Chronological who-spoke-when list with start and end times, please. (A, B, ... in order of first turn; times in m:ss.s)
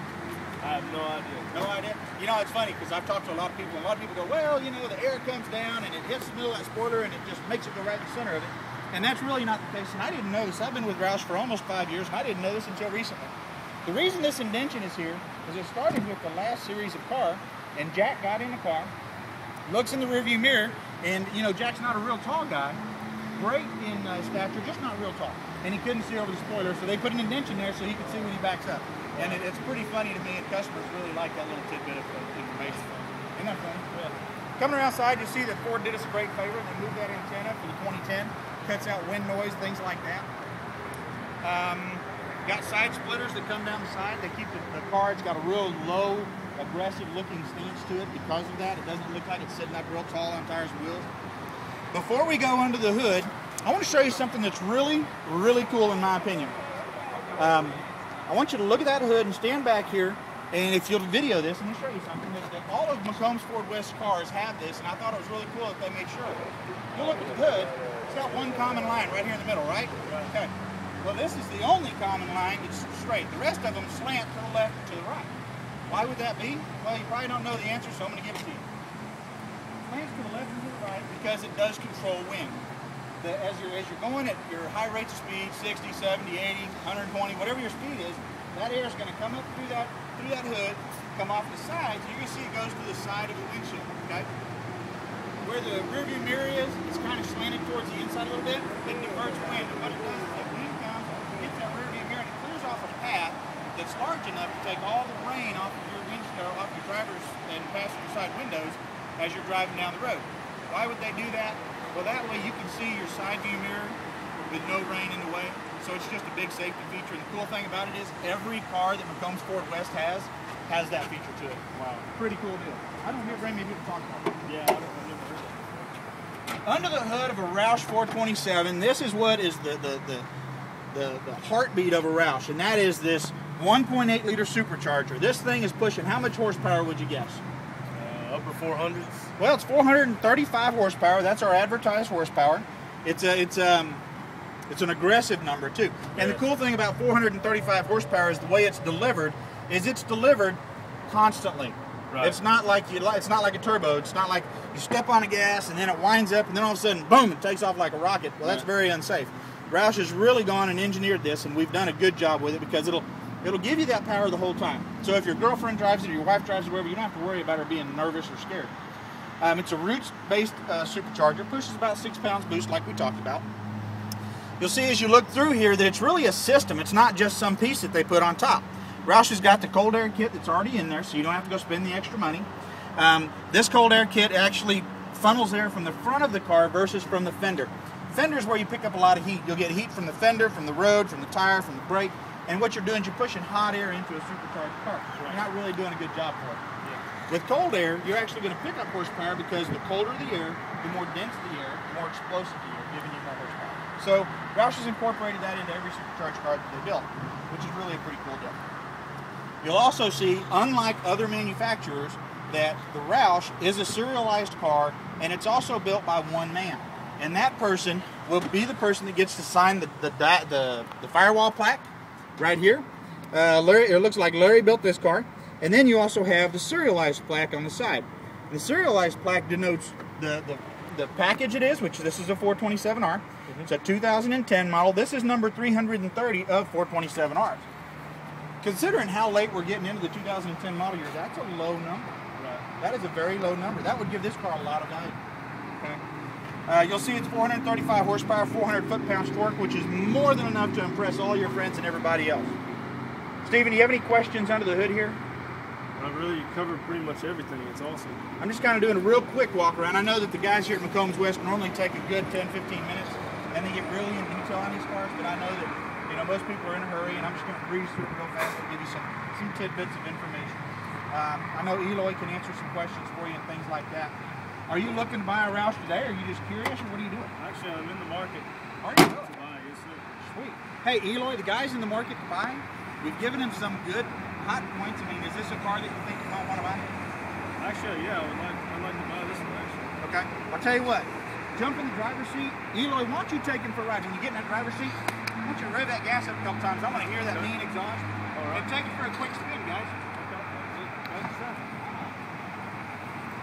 0:00.6-0:01.5 A
0:01.5-0:13.3 B
0:13.8-0:18.9 B
0:19.7-0:22.8 B
0:23.4-0:33.8 B
0:29.1-0:29.4 A
0:33.9-0:34.2 A
0:34.6-0:40.3 B
0:41.4-0:51.1 B
0:51.9-0:56.6 B
0:57.3-1:06.4 B
1:06.9-1:15.3 B
1:10.0-1:10.3 A
1:15.9-1:18.6 B
1:19.8-1:22.6 B
1:23.2-1:34.3 B
1:35.4-1:54.0 B
1:54.5-2:04.4 B
2:01.7-2:02.1 A
2:04.4-2:06.0 A
2:06.6-2:10.3 B
2:10.9-2:17.4 B
2:17.9-2:19.3 A
2:19.4-2:24.0 B
2:24.7-2:48.7 B
2:26.1-2:26.4 A
2:32.1-2:32.4 A
2:49.4-2:53.4 B
2:54.6-3:16.6 B
3:17.3-3:28.6 B
3:29.6-3:57.6 B
3:58.6-4:02.1 B
4:02.4-4:02.6 A
4:02.8-4:05.2 B
4:06.7-4:12.5 B
4:13.4-4:15.2 B
4:16.0-4:18.2 A
4:18.4-4:34.1 B
4:34.7-4:37.3 B
4:37.4-4:40.3 A
4:38.8-4:39.3 B
4:40.2-4:46.9 B
4:47.6-4:49.9 A
4:50.0-5:00.0 B
4:58.3-4:58.7 A
5:00.1-5:01.7 A
5:01.8-5:02.1 B